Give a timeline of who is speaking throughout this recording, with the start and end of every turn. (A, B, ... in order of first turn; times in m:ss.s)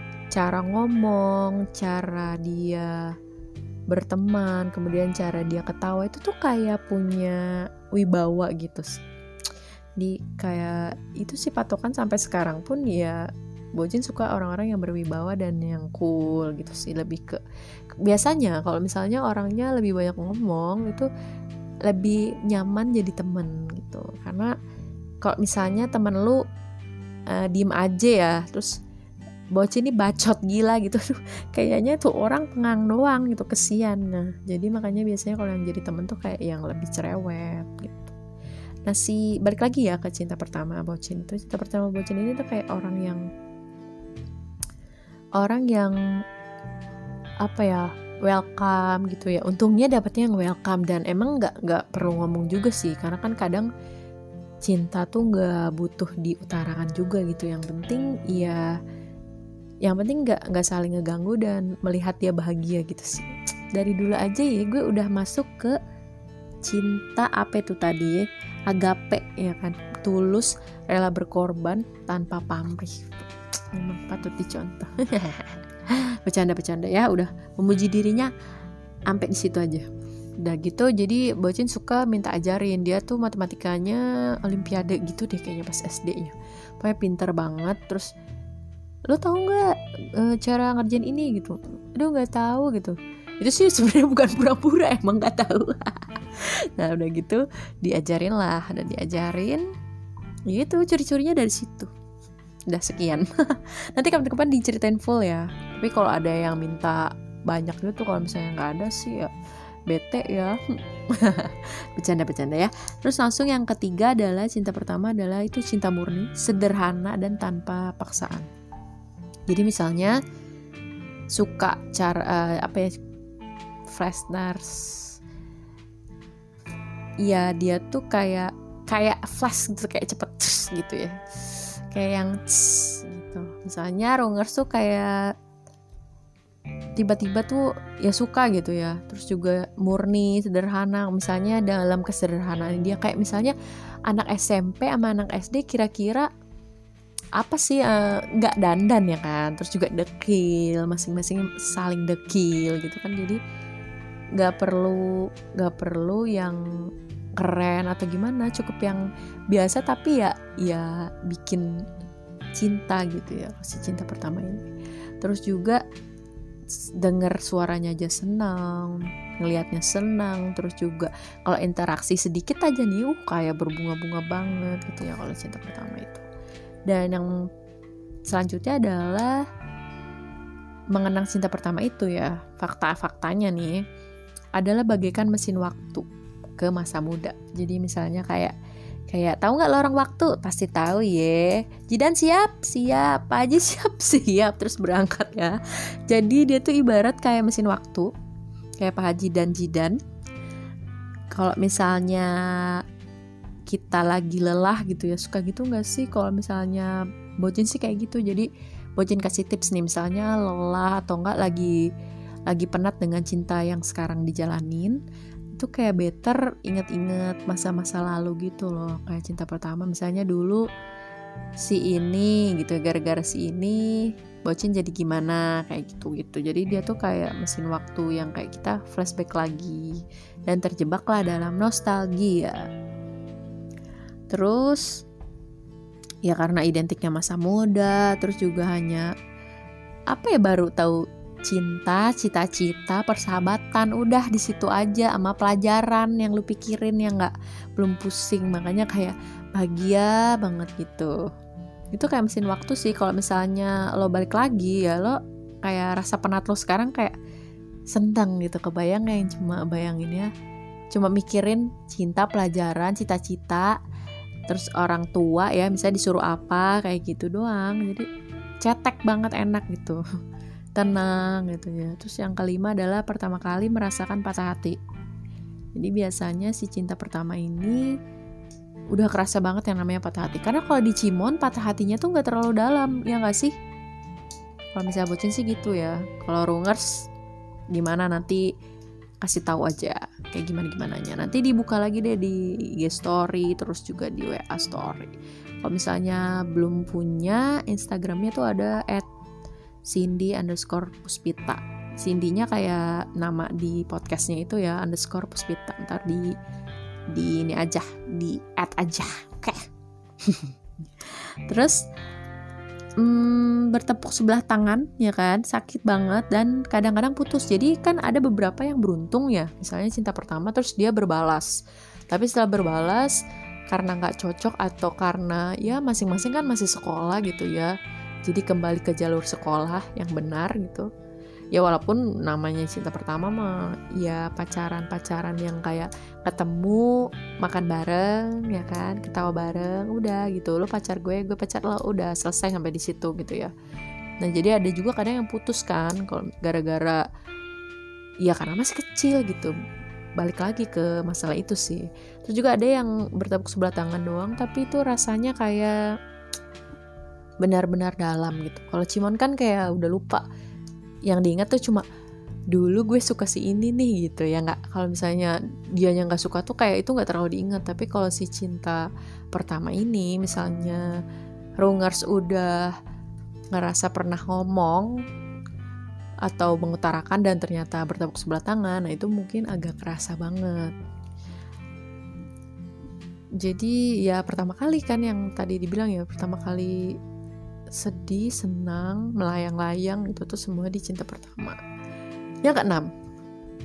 0:00.3-0:03.1 A
0:03.9-0:07.4 A
0:07.9-0:09.0 A
0:10.0-0:13.2 A
0:13.8-0:17.4 A
0:18.0-0:21.1 A
0:21.9-0:24.5 A
0:25.2-0:26.4 A
0:27.3-0:28.8 A
0:29.5-0:38.2 A
0:38.9-0:43.2 A
0:45.4-0:46.0 A
0:47.4-0:53.7 A
0:54.6-0:58.6 A
0:59.8-1:05.8 A
1:06.6-1:18.3 A
1:19.1-1:19.9 A
1:20.4-1:28.1 A
1:29.1-1:39.6 A
1:40.5-1:41.9 A
1:42.7-1:49.3 A
1:49.9-1:50.6 A
1:51.1-1:58.5 A
1:59.5-2:00.2 A
2:01.3-2:02.9 A
2:03.9-2:05.2 A
2:07.2-2:15.2 A
2:17.0-2:23.5 A
2:24.1-2:26.3 A
2:27.4-2:33.4 A
2:34.4-2:36.6 A
2:37.4-2:41.8 A
2:42.6-2:44.7 A
2:45.2-2:45.8 A
2:47.0-2:56.2 A
2:56.9-2:57.3 A
2:58.3-2:59.4 A
3:00.9-3:03.8 A
3:04.6-3:06.0 A
3:06.6-3:08.5 A
3:09.1-3:15.6 A
3:16.1-3:18.1 A
3:18.8-3:20.0 A
3:21.3-3:22.8 A
3:23.7-3:31.8 A
3:32.5-3:35.0 A
3:35.6-3:40.6 A
3:41.6-3:52.7 A
3:54.3-3:55.0 A
3:56.2-3:59.1 A
4:00.1-4:11.2 A
4:11.9-4:17.1 A
4:17.9-4:20.3 A
4:20.9-4:23.8 A
4:24.5-4:28.1 A
4:28.6-4:30.0 A
4:30.8-4:34.8 A
4:35.8-4:37.9 A
4:38.9-4:43.5 A
4:44.8-4:47.1 A
4:47.7-4:48.5 A
4:49.2-4:59.1 A
4:59.9-5:06.3 A
5:07.1-5:09.6 A
5:10.2-5:10.5 A
5:11.1-5:11.8 A
5:13.0-5:21.5 A
5:22.1-5:23.2 A
5:23.7-5:27.7 A
5:28.2-5:30.9 A
5:31.5-5:43.5 A
5:44.2-5:47.0 A
5:48.2-5:49.5 A
5:50.2-5:55.7 A
5:57.4-6:00.2 A
6:01.1-6:01.9 A
6:02.5-6:08.8 A
6:09.3-6:10.8 A
6:11.6-6:12.7 A
6:13.5-6:14.9 A
6:16.3-6:20.7 A
6:23.4-6:26.8 A
6:27.8-6:31.6 A
6:32.4-6:32.9 A